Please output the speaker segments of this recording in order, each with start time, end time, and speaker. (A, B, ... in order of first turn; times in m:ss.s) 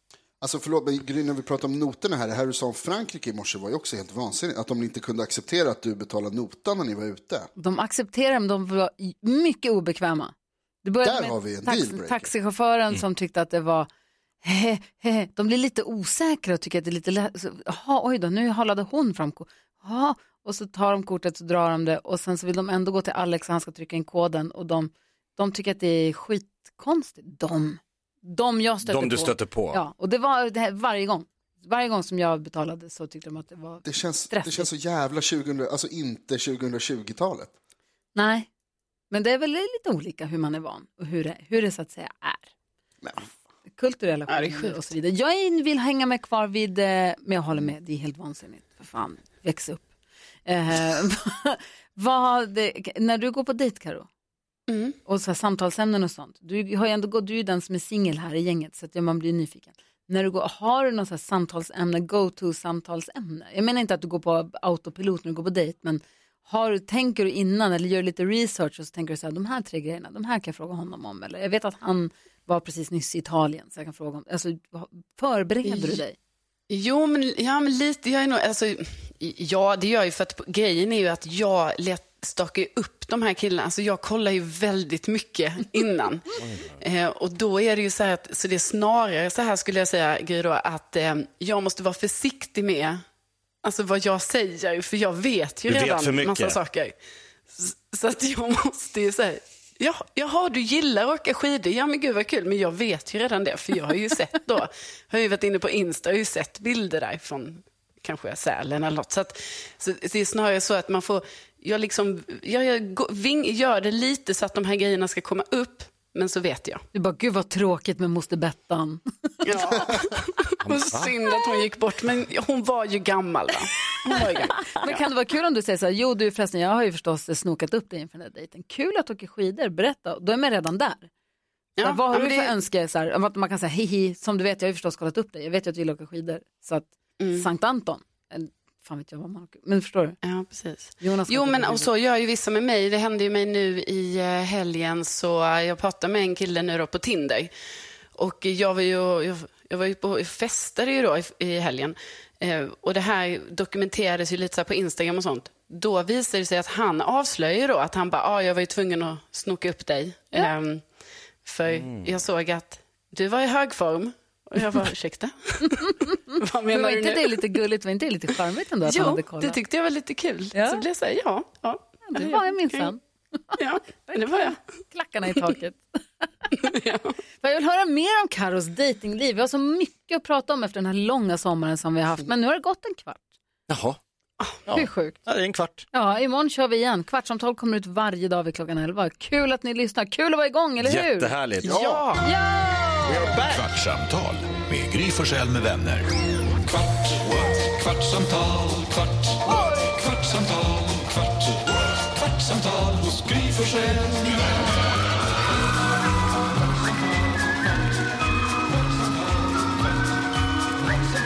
0:00.4-0:07.5 A
0:07.6-0:13.9 B
0:11.0-0:12.3 A
0:14.4-0:34.7 B
0:28.8-0:29.8 C
0:33.8-0:37.5 A
0:38.1-0:38.5 B
0:39.1-0:42.5 B
0:43.7-0:49.9 B
0:44.3-0:44.8 D
0:50.4-0:54.1 B
0:54.7-0:55.0 D
0:55.0-1:16.2 B
1:15.6-1:16.0 D
1:16.7-1:33.0 D
1:26.4-1:26.7 C
1:33.6-1:37.0 D
1:35.7-1:36.6 C
1:37.5-1:56.8 D
1:56.9-1:59.8 B
1:59.4-2:04.7 D
2:00.6-2:01.1 C
2:04.7-2:11.1 B
2:11.8-2:12.5 D
2:11.8-2:20.2 B
2:17.2-2:17.5 D
2:20.2-2:27.5 D
2:21.0-2:21.9 B
2:28.2-2:40.8 D
2:41.4-2:47.4 D
2:41.7-2:42.2 C
2:46.7-2:49.6 B
2:48.8-2:52.9 D
2:50.5-2:50.8 B
2:52.0-2:56.6 B
2:53.6-2:54.6 D
2:56.6-2:57.1 D
2:57.4-3:03.3 B
3:03.7-3:04.0 C
3:04.6-3:05.8 C
3:04.7-3:05.2 B
3:05.9-3:11.4 B
3:10.8-3:12.3 C
3:11.6-3:12.1 A
3:12.2-3:13.4 B
3:13.0-3:13.7 C
3:13.5-3:16.1 E
3:17.3-3:19.3 E
3:19.4-3:20.2 B
3:22.6-3:24.2 E